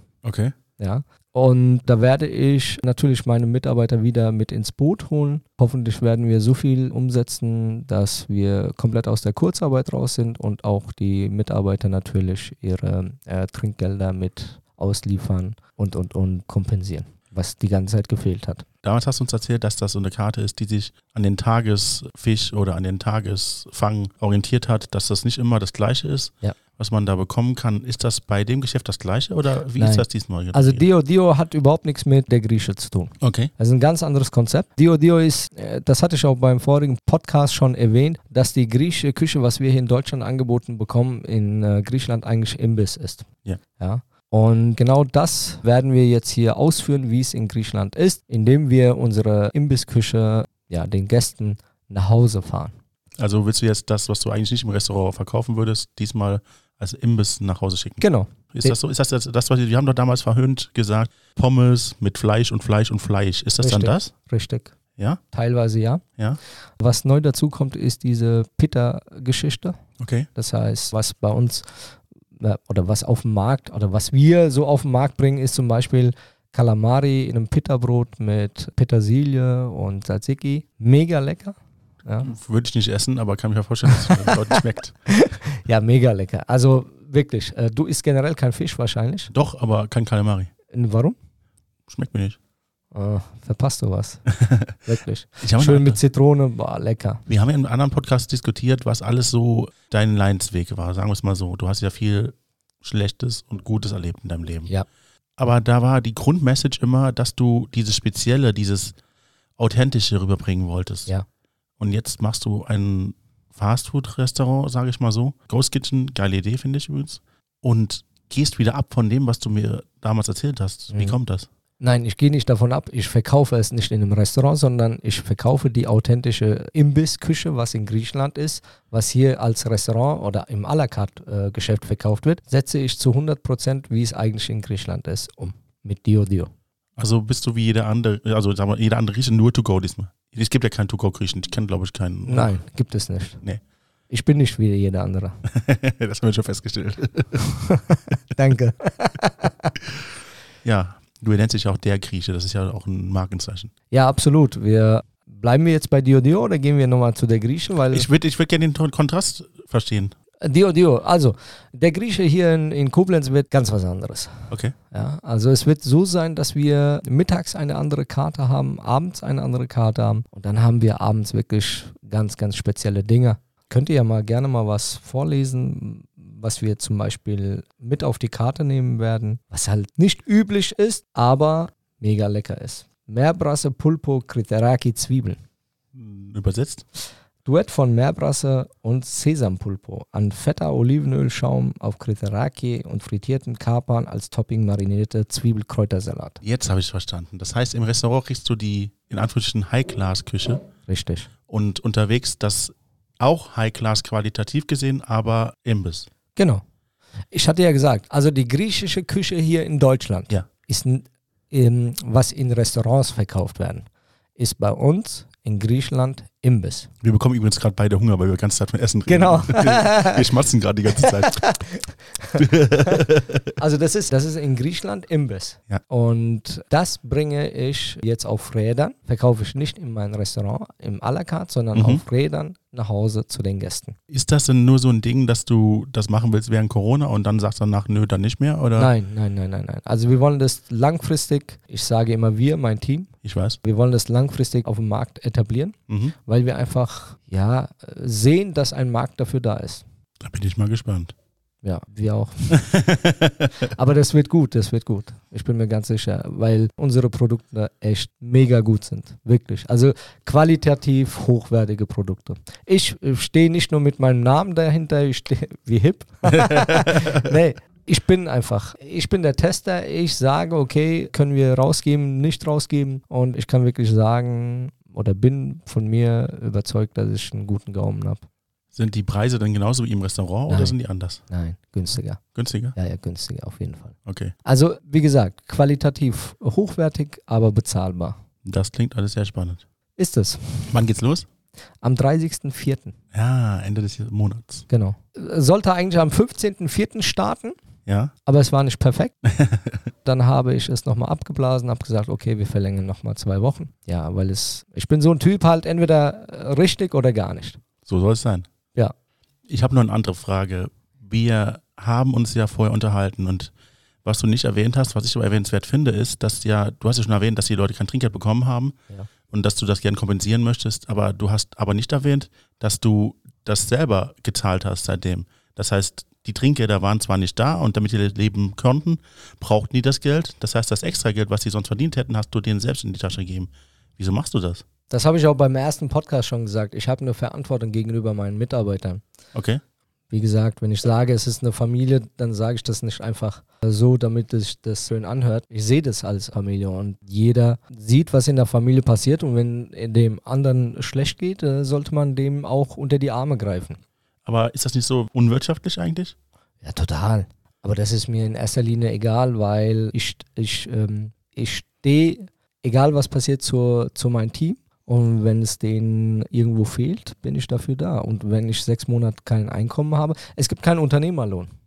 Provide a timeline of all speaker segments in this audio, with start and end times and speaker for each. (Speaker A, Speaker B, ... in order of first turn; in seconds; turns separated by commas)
Speaker A: 0.2-0.5, Speaker B: 0.8-18.6, Speaker A: 18.8-30.9, Speaker B: 29.8-43.3, Speaker A: 33.2-33.5, Speaker B: 43.8-52.7, Speaker A: 53.2-58.0, Speaker B: 58.0-58.8, Speaker A: 58.5-64.1, Speaker B: 63.6-64.7, Speaker B: 65.3-66.0, Speaker B: 66.8-69.8, Speaker A: 70.0-70.3, Speaker B: 70.3-82.3, Speaker A: 82.2-85.0, Speaker B: 83.9-84.5, Speaker B: 85.1-89.3, Speaker A: 89.3-90.5, Speaker B: 90.7-91.2, Speaker A: 91.9-92.4, Speaker B: 92.9-97.2, Speaker A: 94.4-94.8, Speaker A: 95.4-96.0, Speaker A: 97.3-104.7, Speaker A: 105.4-109.0, Speaker A: 109.6-111.1, Speaker A: 111.8-121.5, Speaker B: 120.9-121.2, Speaker B: 121.8-136.5, Speaker A: 137.0-142.6, Speaker B: 142.3-143.4, Speaker B: 144.1-145.4, Speaker A: 145.4-147.6, Speaker B: 147.5-149.7, Speaker A: 150.6-153.7, Speaker B: 153.9-158.1, Speaker A: 157.9-160.1, Speaker B: 160.4-185.4, Speaker A: 185.9-186.8, Speaker B: 187.4-196.4, Speaker A: 196.4-200.6, Speaker B: 200.9-201.3, Speaker A: 201.5-206.1, Speaker B: 206.3-206.6, Speaker B: 207.3-216.9, Speaker A: 217.0-221.6, Speaker B: 219.1-220.3, Speaker B: 220.9-223.1, Speaker A: 222.3-223.5, Speaker B: 223.6-234.0, Speaker A: 231.7-232.0, Speaker A: 234.1-238.9, Speaker B: 238.8-249.8, Speaker A: 243.2-243.6, Speaker A: 245.9-246.1, Speaker A: 250.2-251.1, Speaker B: 251.6-252.8, Speaker A: 252.5-253.5, Speaker B: 253.7-278.2, Speaker A: 266.7-267.1, Speaker A: 278.7-281.2, Speaker B: 280.5-280.8, Speaker B: 281.3-282.2, Speaker A: 282.3-282.7, Speaker B: 282.7-288.2, Speaker A: 284.1-284.3, Speaker A: 288.4-289.6, Speaker B: 290.0-290.8, Speaker A: 290.7-291.3, Speaker B: 291.8-292.9, Speaker A: 293.1-294.6, Speaker B: 294.7-297.6, Speaker A: 297.9-298.1, Speaker B: 298.2-299.2, Speaker A: 299.4-299.7, Speaker B: 300.0-307.6, Speaker A: 307.9-308.5, Speaker A: 309.5-313.5, Speaker A: 314.0-318.7, Speaker A: 319.3-334.6, Speaker B: 334.9-339.0, Speaker A: 339.3-339.6, Speaker B: 340.1-353.8, Speaker A: 354.2-356.1, Speaker B: 356.6-371.5